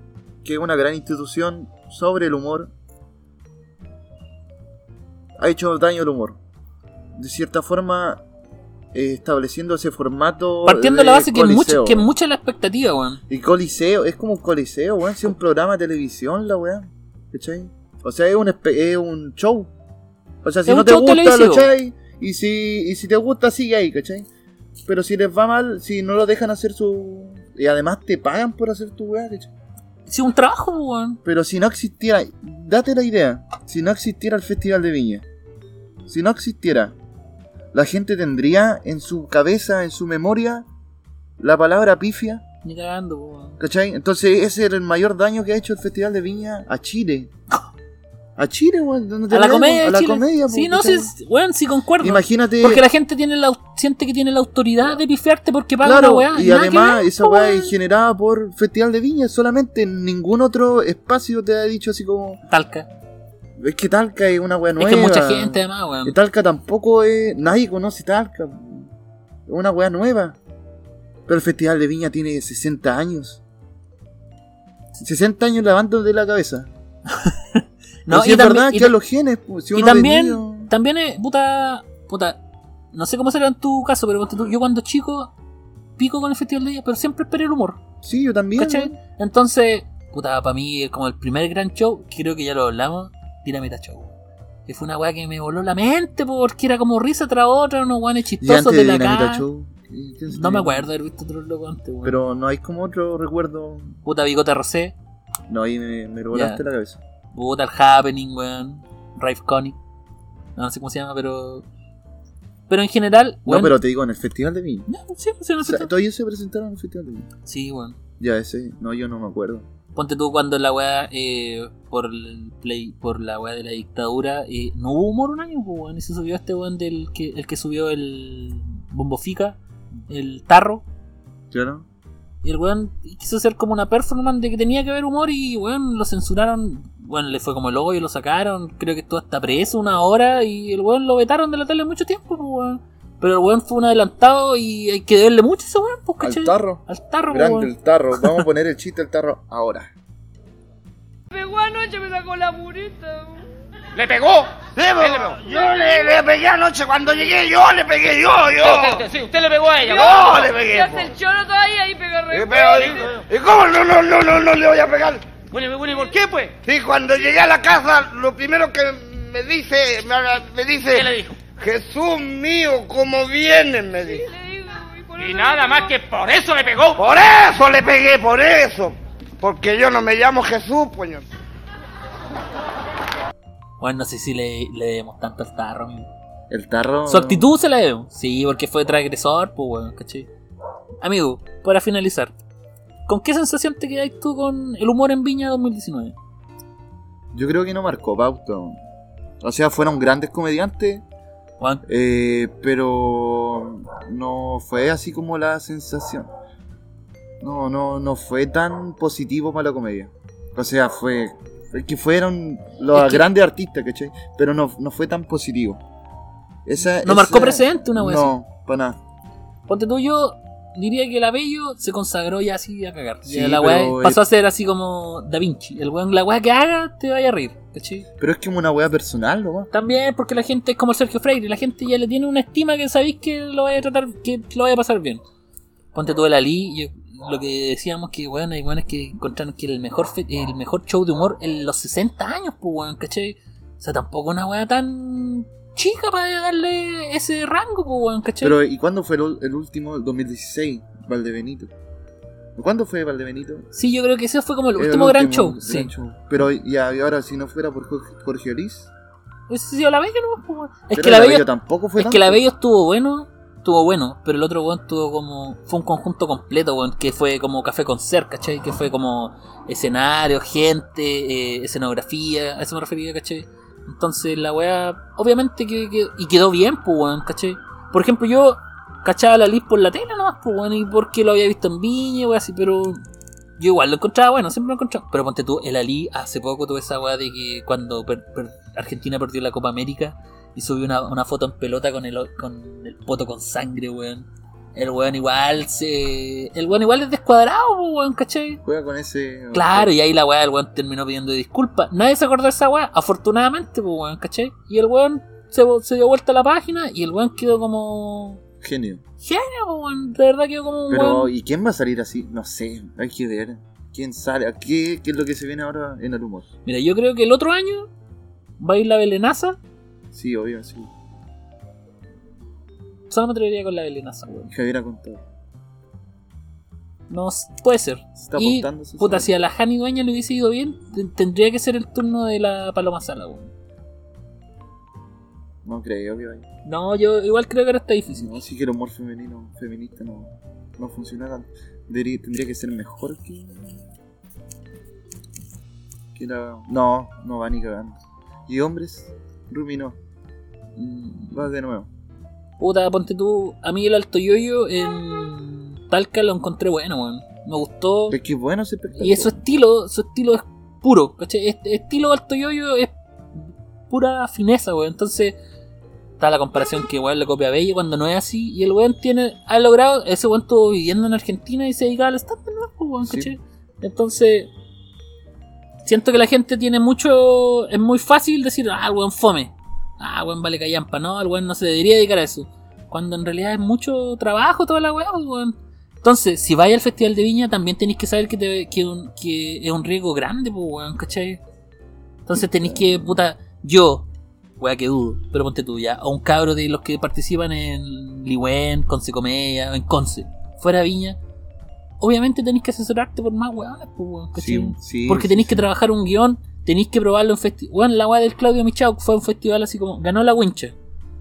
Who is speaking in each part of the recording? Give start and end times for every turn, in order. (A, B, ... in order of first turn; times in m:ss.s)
0:00.4-0:02.7 A
0:05.4-0:06.4 A
0:07.2-0:08.2 A
0:08.9-0:12.1 A
0:10.6-0:13.2 B
0:13.3-0:19.7 A
0:20.4-0:24.3 A
0:20.7-0:21.7 B
0:24.9-0:29.5 A
0:30.1-0:31.2 B
0:31.2-0:35.3 A
0:36.1-0:37.0 A
0:37.7-0:40.7 A
0:41.4-0:42.4 A
0:42.6-0:43.6 B
0:43.6-0:47.3 A
0:48.4-0:51.1 A
0:49.3-0:57.7 B
0:52.0-0:52.8 A
0:55.8-1:02.4 A
1:02.5-1:02.9 B
1:03.6-1:08.9 A
1:04.8-1:06.2 B
1:09.5-1:10.4 A
1:11.3-1:13.4 A
1:15.0-1:16.7 A
1:17.1-1:18.9 B
1:18.1-1:20.7 A
1:19.7-1:22.4 B
1:22.9-1:25.3 B
1:26.0-1:27.8 B
1:28.0-1:29.0 A
1:28.6-1:34.1 B
1:34.7-1:39.5 B
1:38.4-1:40.9 A
1:40.3-1:42.2 B
1:42.0-1:44.0 A
1:44.0-1:45.0 B
1:45.5-1:47.0 A
1:46.3-1:46.6 B
1:47.3-1:49.8 B
1:50.6-1:51.6 B
1:52.7-1:53.8 B
1:53.5-1:54.9 A
1:54.9-1:55.9 B
1:55.6-1:57.3 A
1:57.5-1:58.0 B
1:58.2-1:59.7 A
2:00.0-2:10.8 B
2:11.5-2:11.9 A
2:12.4-2:28.4 B
2:26.2-2:29.9 A
2:31.3-2:33.4 C
2:34.0-2:34.5 D
2:34.8-2:39.0 E
2:35.0-2:35.3 D
2:35.4-2:36.2 C
2:38.6-2:40.5 D
2:39.8-2:43.1 C
2:39.9-2:41.1 E
2:42.3-2:45.2 E
2:42.8-2:43.2 D
2:45.5-2:46.5 D
2:46.6-2:54.2 E
2:50.9-2:51.4 D
2:54.1-2:56.0 C
2:55.2-2:57.0 D
2:57.0-3:01.3 E
3:03.8-3:06.1 B
3:06.5-3:07.5 A
3:07.1-3:10.3 B
3:11.0-3:12.4 B
3:13.1-3:16.2 B
3:17.3-3:18.8 A
3:19.4-3:21.0 A
3:21.6-3:21.8 B
3:21.9-3:26.3 A
3:27.4-3:35.8 A
3:32.9-3:33.3 B
3:36.7-3:39.0 A
3:37.0-3:38.4 B
3:39.7-3:48.1 B
3:43.2-3:44.2 A
3:48.2-3:49.7 A
3:49.7-3:55.2 B
3:55.9-4:08.6 B
4:08.4-4:11.7 A
4:12.6-4:13.7 A
4:13.7-4:15.9 B
4:14.8-4:18.9 A
4:19.5-4:43.0 B
4:20.9-4:22.4 A
4:43.6-4:58.6 B
4:58.6-4:59.9 A
4:59.5-5:08.4 B
5:08.6-5:09.0 A
5:09.2-5:11.3 B
5:10.9-5:16.5 A
5:16.7-5:17.9 B
5:18.6-5:19.6 B
5:20.1-5:20.9 A
5:23.1-5:24.5 B
5:24.5-5:25.2 A
5:27.1-5:33.5 B
5:28.2-5:29.3 A
5:35.6-5:36.4 A
5:36.6-5:38.3 B
5:38.1-5:43.8 A
5:46.2-5:50.0 A
5:50.8-5:51.4 B
5:51.3-5:51.9 A
5:52.6-5:58.2 B
5:58.1-5:59.4 A
5:59.0-6:05.4 B
6:06.2-6:14.5 B
6:13.0-6:13.3 A
6:15.8-6:31.4 B
6:32.3-6:34.1 B
6:32.3-6:33.2 A
6:34.6-6:41.2 B
6:42.0-6:50.8 B
6:44.4-6:45.6 A